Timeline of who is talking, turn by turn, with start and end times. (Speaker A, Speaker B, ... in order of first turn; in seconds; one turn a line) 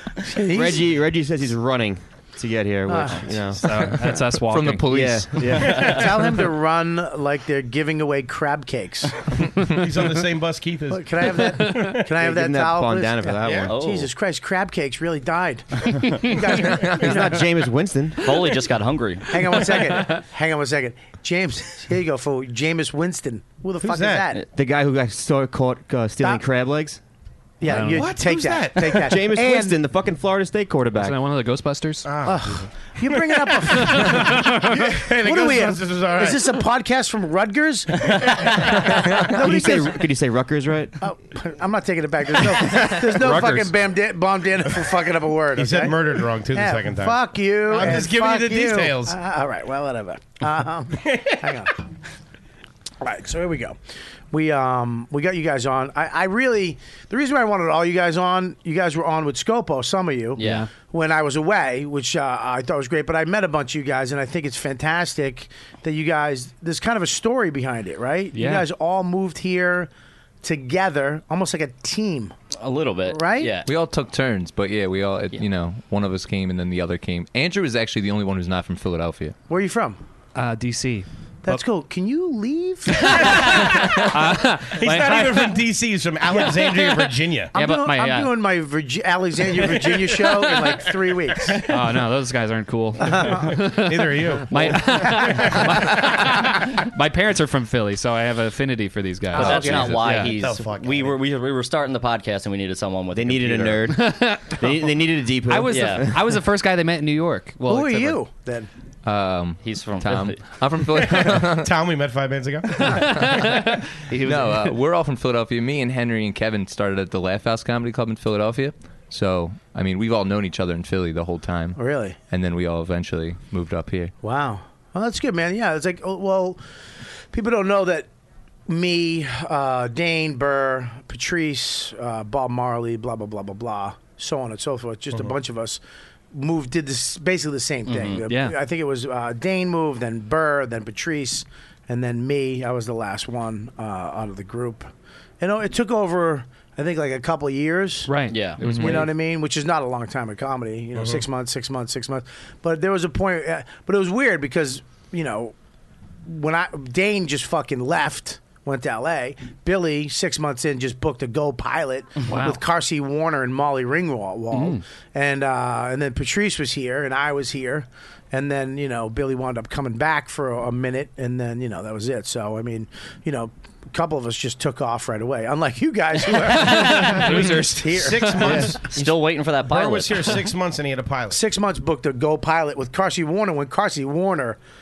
Speaker A: 0.2-0.9
Speaker B: 0.5-3.6
Speaker A: 2.9-3.2
Speaker C: 3.5-4.9
Speaker D: 4.5-5.7
Speaker B: 4.9-6.1
Speaker A: 5.8-9.4
Speaker E: 9.6-12.0
Speaker A: 10.9-17.4
Speaker B: 12.2-13.7
Speaker E: 13.4-13.7
Speaker F: 13.7-14.1
Speaker B: 16.7-18.6
Speaker F: 18.2-19.3
Speaker A: 19.3-24.4
Speaker E: 23.8-24.3
Speaker B: 24.5-27.0
Speaker A: 27.6-29.8
Speaker C: 27.6-28.1
Speaker E: 27.9-29.1
Speaker B: 28.9-31.2
Speaker C: 30.9-32.1
Speaker E: 32.1-36.6
Speaker A: 32.2-40.0
Speaker B: 39.1-41.0
Speaker A: 41.0-46.0
Speaker C: 42.6-43.8
Speaker E: 45.5-49.2
Speaker A: 46.5-51.8
Speaker E: 51.0-51.4
Speaker A: 53.0-53.8
Speaker A: 54.3-69.9
Speaker F: 60.4-60.7
Speaker C: 60.4-60.7
Speaker C: 68.3-68.7
Speaker A: 70.4-72.3
Speaker F: 72.6-73.7
Speaker A: 73.1-73.5
Speaker D: 73.7-79.3
Speaker A: 79.5-80.0
Speaker C: 80.3-81.6
Speaker A: 81.4-83.4
Speaker C: 83.1-85.6
Speaker E: 83.2-87.5
Speaker C: 87.5-88.3
Speaker A: 87.5-91.6
Speaker E: 89.7-90.0
Speaker C: 91.7-100.3
Speaker A: 93.0-93.5
Speaker E: 93.7-96.1
Speaker A: 94.7-95.5
Speaker A: 99.3-100.0
Speaker F: 99.3-103.8
Speaker E: 99.3-101.2
Speaker B: 103.1-106.2
Speaker C: 103.9-104.9
Speaker C: 105.4-108.2
Speaker F: 105.7-106.1
Speaker A: 107.7-108.7
Speaker D: 109.0-111.7
Speaker F: 109.6-110.6
Speaker E: 111.0-113.5
Speaker C: 112.9-114.8
Speaker D: 114.2-124.1
Speaker A: 121.8-122.2
Speaker A: 124.2-126.6
Speaker A: 127.3-128.1
Speaker A: 128.7-135.8
Speaker A: 136.3-144.9
Speaker F: 137.9-138.2
Speaker C: 138.2-138.6
Speaker A: 145.4-155.5
Speaker C: 148.1-149.1
Speaker F: 148.3-149.0
Speaker E: 151.0-151.2
Speaker A: 156.3-178.7
Speaker C: 162.3-162.6
Speaker C: 164.5-164.8
Speaker C: 176.5-178.6
Speaker E: 177.0-181.4
Speaker F: 178.8-180.5
Speaker A: 181.3-184.6